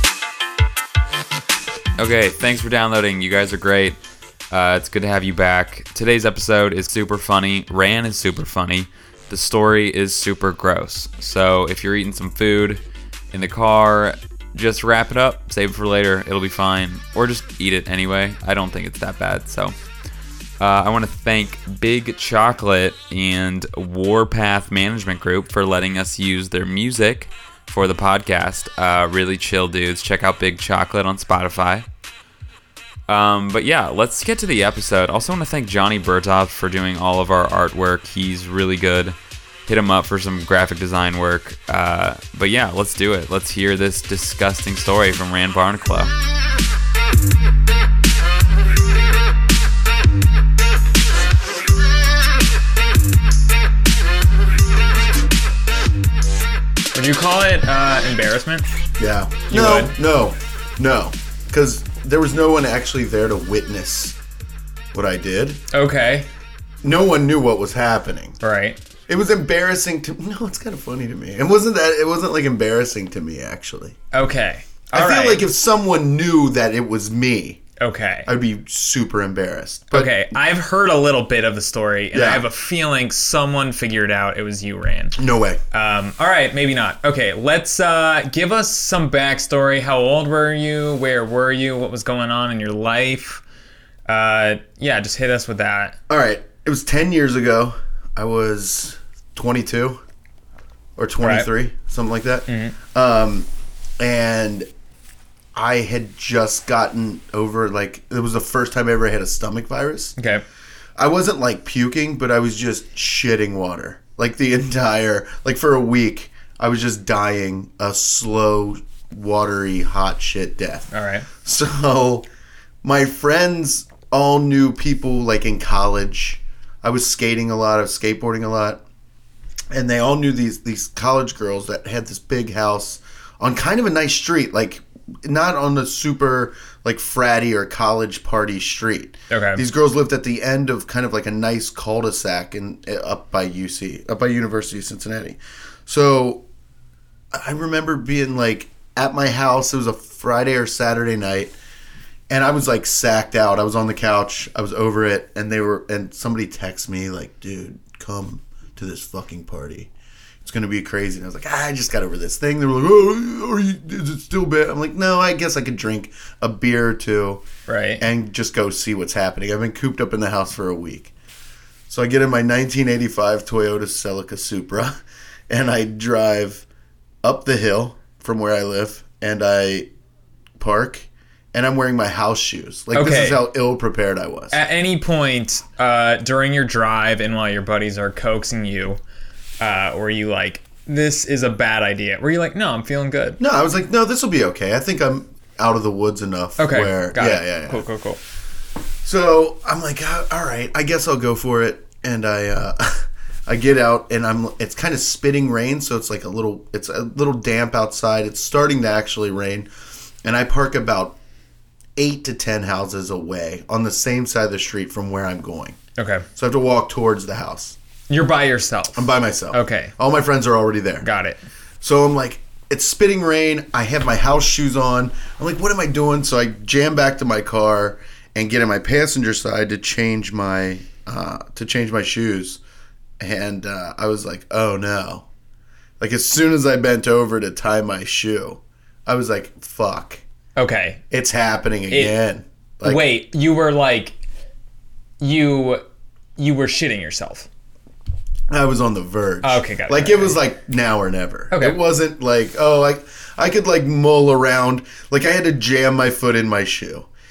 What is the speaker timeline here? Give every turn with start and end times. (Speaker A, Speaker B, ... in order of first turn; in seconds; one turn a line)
Speaker A: 2.0-4.0
Speaker A: 4.5-19.7
Speaker A: 20.6-31.9
Speaker A: 33.1-39.2
Speaker A: 39.7-46.1
Speaker B: 56.9-58.6
Speaker C: 59.0-64.2
Speaker B: 59.5-59.9
Speaker C: 64.9-65.6
Speaker B: 65.7-66.3
Speaker C: 66.8-68.4
Speaker B: 68.4-68.8
Speaker C: 69.1-74.0
Speaker B: 74.1-75.4
Speaker C: 74.9-77.6
Speaker B: 77.8-78.3
Speaker C: 78.3-80.1
Speaker B: 79.9-85.2
Speaker C: 82.1-82.5
Speaker C: 85.2-85.6
Speaker B: 85.7-93.4
Speaker B: 94.1-96.0
Speaker C: 96.1-100.0
Speaker C: 101.0-103.5
Speaker B: 101.2-101.5
Speaker B: 102.5-102.8
Speaker C: 104.0-104.7
Speaker C: 105.5-110.2
Speaker B: 110.2-110.4
Speaker C: 111.0-120.9
Speaker B: 120.9-121.3
Speaker C: 121.4-122.3
Speaker C: 122.8-128.8
Speaker C: 129.7-146.4
Speaker B: 139.3-139.6
Speaker C: 147.3-151.6
Speaker C: 152.3-159.9
Speaker C: 160.4-167.4
Speaker B: 167.7-168.0
Speaker C: 168.0-171.1
Speaker C: 171.9-174.9
Speaker C: 175.5-176.6
Speaker C: 177.2-179.9
Speaker C: 180.6-184.6
Speaker B: 182.9-183.4
Speaker B: 184.5-189.0
Speaker B: 189.6-193.4
Speaker C: 193.4-197.8
Speaker B: 196.6-198.2
Speaker C: 199.0-209.7
Speaker C: 210.2-211.2
Speaker C: 212.0-215.8
Speaker B: 216.0-216.2
Speaker C: 216.3-217.8
Speaker B: 218.1-219.9
Speaker C: 219.0-221.1
Speaker B: 221.0-221.4
Speaker C: 221.8-232.6
Speaker C: 233.2-235.3
Speaker C: 236.0-240.2
Speaker B: 240.6-241.0
Speaker C: 241.1-243.1
Speaker B: 241.9-242.2
Speaker B: 242.8-244.2
Speaker B: 245.2-245.8
Speaker B: 246.4-247.5
Speaker C: 248.5-257.1
Speaker B: 249.4-250.4
Speaker B: 251.5-251.8